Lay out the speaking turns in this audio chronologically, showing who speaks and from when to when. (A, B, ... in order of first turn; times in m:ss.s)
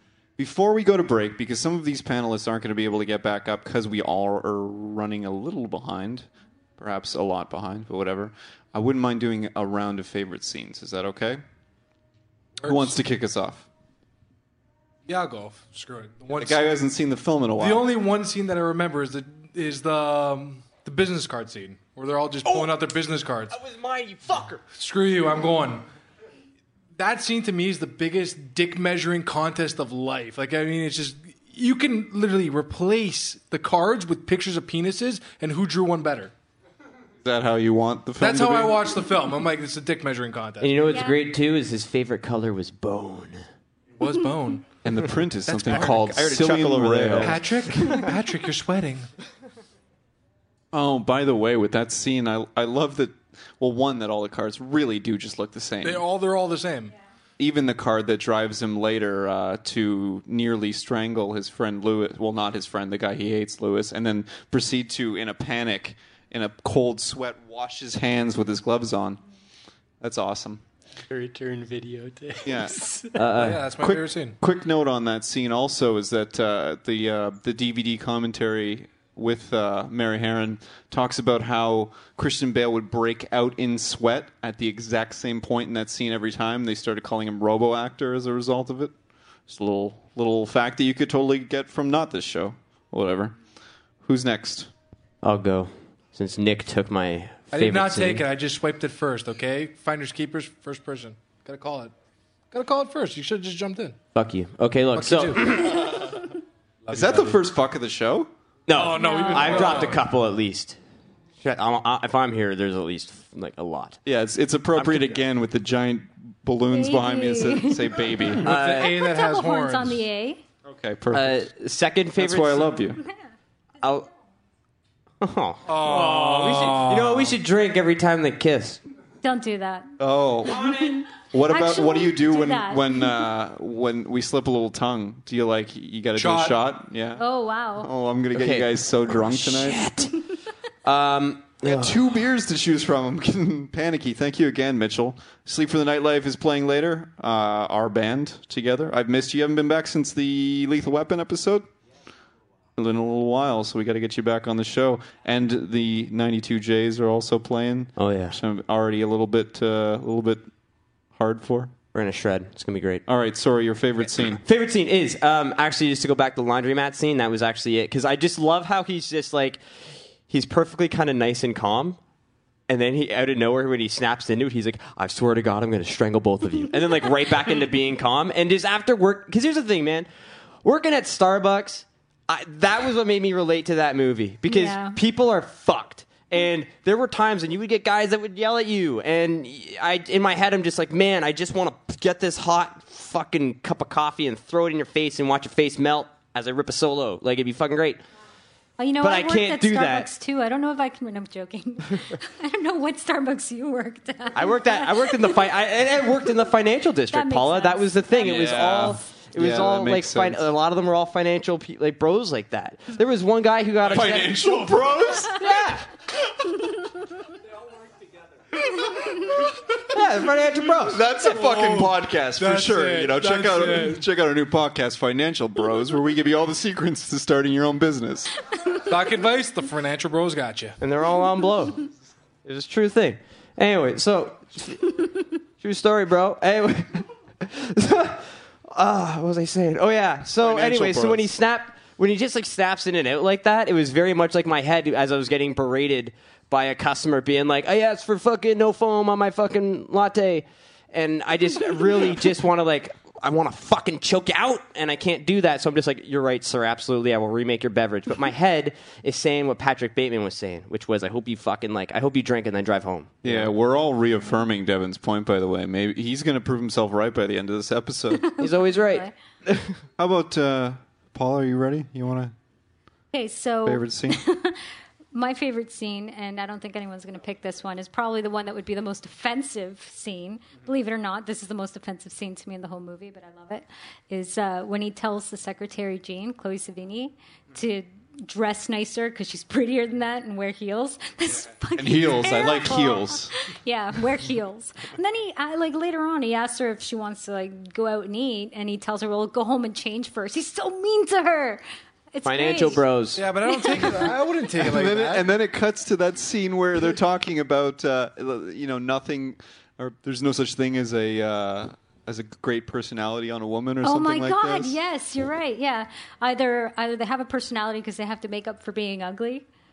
0:00.4-0:06.3 A
0:06.8-0:11.4 A
0:12.6-0:12.9 B
0:12.6-0:13.7 A
0:15.1-0:16.8 B
0:16.3-0:17.9 A
0:17.6-0:23.6 B
0:22.4-0:22.7 C
0:23.5-0:24.6 C
0:24.7-0:25.8 B
0:27.0-0:36.3 B
0:37.2-0:38.8 A
0:38.2-0:41.0 B
0:40.6-0:43.4 C
0:40.9-0:41.2 D
0:44.0-0:44.6 B
0:44.8-0:47.9 A
0:45.5-0:46.1 B
0:45.6-0:47.4 C
0:47.2-0:49.1 B
0:50.7-0:56.0 A
0:55.8-0:56.9 B
0:57.4-1:09.2 A
1:10.0-1:10.6 A
1:11.1-1:13.1 E
1:12.4-1:12.8 A
1:13.2-1:13.7 C
1:13.3-1:14.4 B
1:13.8-1:28.9 A
1:29.5-1:33.3 A
1:34.0-1:34.7 A
1:35.2-1:38.2 C
1:37.5-1:41.9 B
1:42.5-1:44.0 B
1:44.1-1:46.2 C
1:44.9-1:45.8 B
1:46.9-1:47.4 B
1:46.9-1:48.3 A
1:48.7-1:50.8 C
1:48.7-1:50.0 B
1:49.0-1:49.8 D
1:51.4-1:54.0 C
1:54.0-1:58.5 A
1:54.7-1:55.2 C
1:56.7-2:00.4 D
1:58.4-2:00.0 B
1:58.4-1:59.0 C
2:00.6-2:01.4 A
2:01.1-2:02.8 C
2:02.2-2:03.0 A
2:03.8-2:04.1 C
2:05.2-2:08.8 C
2:05.7-2:07.4 B
2:09.2-2:09.9 D
2:10.0-2:10.7 A
2:10.5-2:13.2 D
2:11.3-2:19.9 A
2:16.2-2:16.6 B
2:17.2-2:17.9 D
2:18.3-2:20.1 C
2:20.8-2:22.1 C
2:21.6-2:31.7 A
2:32.8-2:40.4 A
2:38.0-2:38.4 C
2:41.1-2:41.7 A
2:41.9-2:43.0 C
2:43.1-2:44.4 A
2:44.2-2:49.6 C
2:50.2-2:52.0 C
2:52.7-3:00.1 C
3:00.6-3:18.0 C
3:04.4-3:05.0 D
3:18.8-3:25.4 D
3:19.0-3:20.1 C
3:24.3-3:34.6 C
3:27.1-3:28.6 D
3:28.2-3:30.5 A
3:33.9-3:35.4 A
3:35.3-3:35.8 C
3:39.9-3:41.0 C
3:40.8-3:48.3 A
3:41.2-3:44.0 B
3:48.8-3:50.8 B
3:50.8-3:51.9 C
3:52.4-4:23.5 C
4:00.4-4:01.3 A
4:23.2-4:28.2 A
4:28.2-4:29.1 D
4:28.4-4:29.8 C
4:30.0-4:32.3 A
4:33.1-4:34.6 D
4:33.6-4:34.2 A
4:35.1-5:02.8 D
4:51.8-4:53.3 A
5:02.2-5:03.2 C
5:03.1-5:05.3 B
5:03.5-5:04.1 D
5:04.6-5:14.8 A
5:13.8-5:19.4 D